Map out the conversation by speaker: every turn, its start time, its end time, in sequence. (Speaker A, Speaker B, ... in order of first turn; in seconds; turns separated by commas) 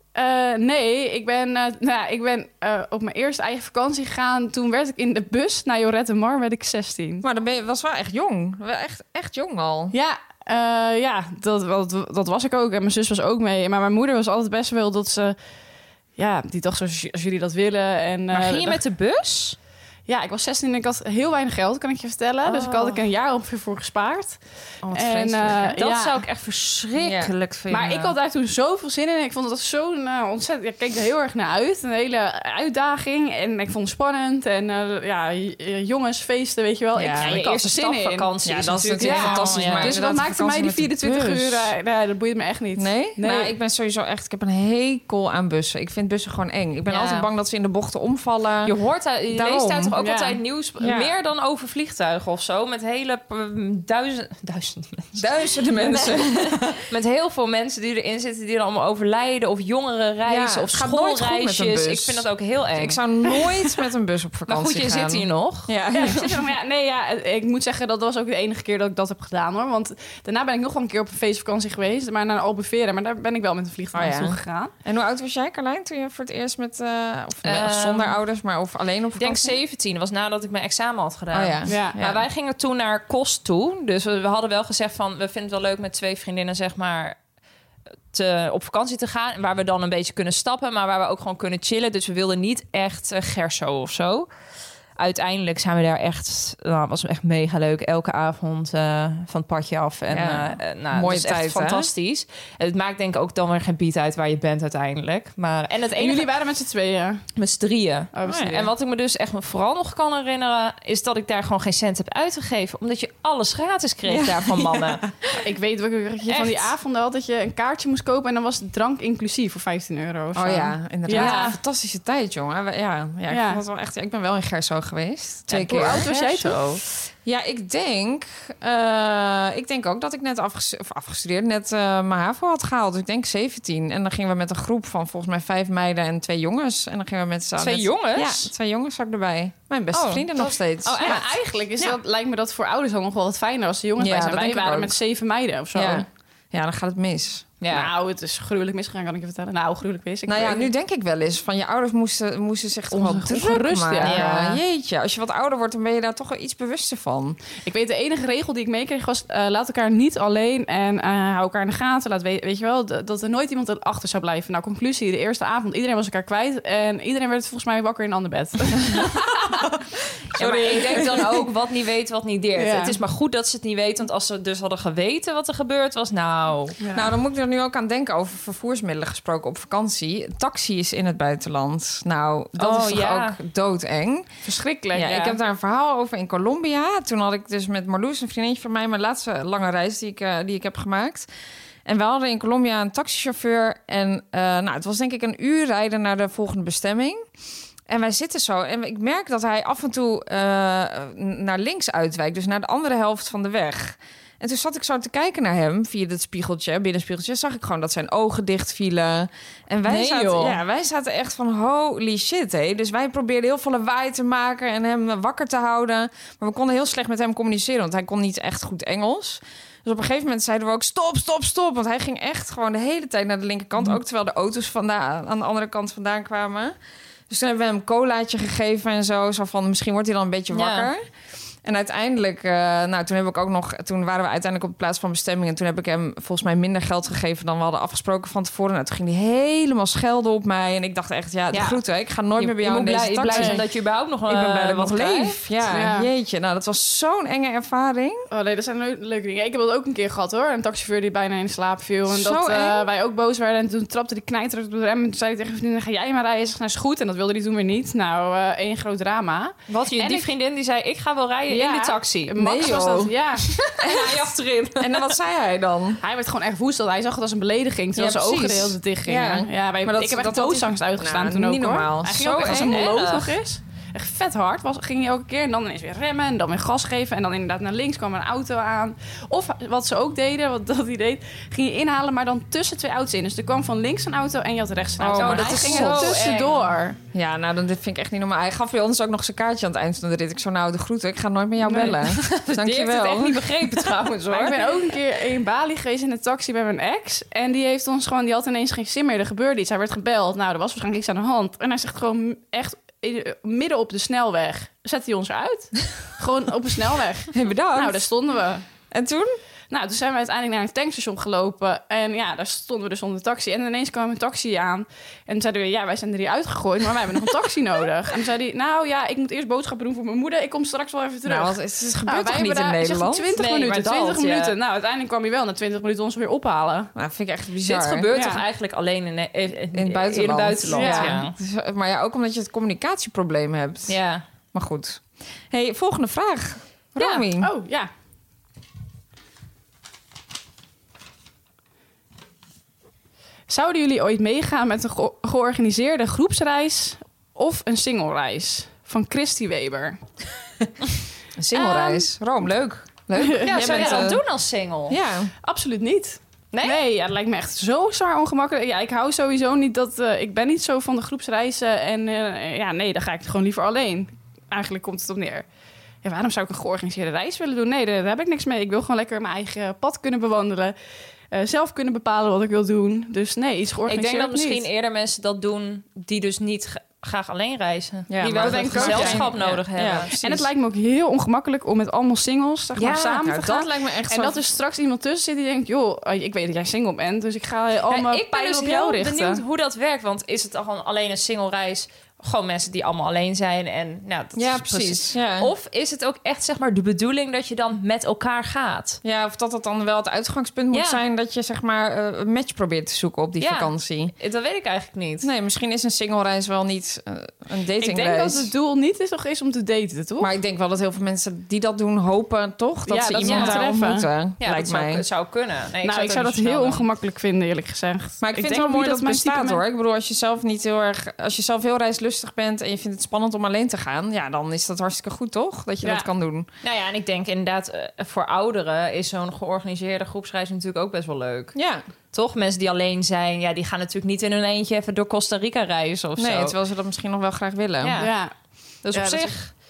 Speaker A: 0.1-7.2, Speaker B: 7.2-9.9, Speaker A: 9.9-15.4, Speaker A: 16.2-18.8, Speaker C: 18.3-19.6, Speaker A: 20.1-24.4, Speaker B: 22.6-22.9, Speaker B: 24.8-25.8, Speaker A: 24.9-26.2, Speaker C: 25.8-28.1, Speaker B: 27.0-27.3, Speaker A: 27.7-38.3, Speaker B: 37.0-37.4, Speaker C: 37.2-40.0, Speaker B: 38.5-41.7, Speaker A: 39.0-43.5, Speaker B: 42.8-48.7, Speaker C: 46.9-47.3, Speaker C: 48.6-63.0, Speaker B: 49.3-49.9, Speaker A: 50.0-50.4, Speaker B: 50.8-51.1, Speaker B: 55.2-56.8, Speaker B: 60.3-66.3, Speaker C: 64.5-65.8, Speaker A: 65.9-74.7, Speaker B: 73.9-79.6, Speaker C: 77.4-78.2, Speaker C: 79.2-87.2, Speaker B: 81.3-82.2, Speaker A: 81.7-82.0, Speaker C: 88.1-94.3, Speaker C: 95.0-106.3, Speaker B: 100.1-101.9, Speaker A: 106.0-107.2, Speaker C: 107.4-115.0, Speaker A: 108.1-108.7, Speaker B: 108.3-108.7, Speaker B: 114.1-115.4, Speaker A: 115.4-121.6, Speaker C: 116.3-116.7, Speaker B: 120.3-126.1, Speaker C: 121.1-121.5, Speaker A: 123.3-123.6, Speaker C: 125.5-126.8, Speaker A: 125.7-126.8, Speaker B: 127.2-141.2, Speaker C: 137.6-138.5, Speaker C: 139.9-141.3, Speaker A: 141.0-146.1, Speaker B: 144.0-145.0, Speaker B: 145.7-147.5, Speaker C: 147.6-147.9, Speaker A: 147.7-150.7, Speaker B: 150.3-157.4, Speaker A: 152.9-154.4, Speaker C: 154.0-154.6, Speaker A: 157.7-169.5, Speaker C: 170.3-176.8, Speaker B: 170.4-171.2, Speaker A: 172.6-173.0, Speaker A: 176.8-177.1, Speaker B: 176.9-184.3, Speaker C: 182.6-183.4, Speaker A: 184.4-185.4, Speaker B: 184.9-191.3, Speaker B: 191.8-197.2, Speaker B: 197.9-226.8, Speaker C: 209.8-210.6, Speaker B: 227.3-231.0, Speaker C: 230.5-230.9, Speaker B: 231.6-243.6, Speaker C: 241.5-241.8, Speaker C: 242.4-245.4, Speaker A: 243.3-243.6, Speaker B: 244.3-248.3, Speaker A: 245.7-246.1, Speaker A: 248.3-260.3, Speaker B: 252.1-252.9, Speaker C: 259.7-262.4, Speaker A: 261.5-263.6, Speaker B: 262.4-263.1, Speaker C: 263.5-265.1, Speaker B: 263.8-264.2, Speaker B: 264.8-266.0, Speaker A: 266.0-287.0, Speaker B: 267.9-272.9, Speaker C: 272.2-273.3, Speaker B: 285.0-286.2, Speaker C: 285.1-286.7, Speaker B: 287.1-293.9, Speaker A: 291.6-292.0, Speaker C: 292.0-294.7, Speaker A: 294.3-308.6, Speaker B: 307.3-308.1, Speaker B: 308.9-309.4, Speaker A: 309.7-326.9, Speaker B: 321.3-323.3, Speaker C: 323.4-324.6, Speaker B: 326.9-328.1, Speaker C: 327.6-331.4, Speaker A: 328.1-328.4, Speaker B: 329.7-334.0, Speaker A: 330.8-331.2, Speaker C: 333.9-334.2, Speaker B: 334.5-337.5, Speaker A: 337.0-337.9, Speaker A: 343.5-350.0, Speaker B: 351.4-354.2, Speaker A: 351.6-352.1, Speaker A: 353.1-354.1, Speaker C: 353.4-355.0, Speaker B: 354.9-355.3, Speaker A: 355.4-365.4, Speaker C: 356.5-356.8, Speaker A: 366.0-370.8, Speaker A: 371.3-374.6, Speaker C: 373.9-380.2, Speaker B: 378.1-380.4, Speaker A: 378.4-379.3, Speaker A: 380.2-389.4, Speaker C: 382.8-383.1, Speaker B: 382.9-384.4, Speaker C: 387.9-399.0, Speaker B: 394.4-395.5, Speaker B: 399.0-404.1, Speaker C: 400.7-401.0, Speaker C: 403.4-405.3, Speaker B: 405.2-408.5, Speaker A: 407.8-410.3, Speaker B: 410.2-415.0, Speaker A: 412.9-414.1, Speaker C: 413.2-413.6, Speaker C: 414.4-416.9, Speaker A: 415.8-419.6, Speaker B: 418.2-426.5, Speaker C: 426.6-431.5, Speaker B: 431.5-431.8, Speaker C: 432.1-436.6, Speaker B: 436.2-438.1, Speaker C: 437.8-438.1, Speaker A: 438.0-438.3, Speaker C: 438.8-439.5, Speaker A: 438.9-439.4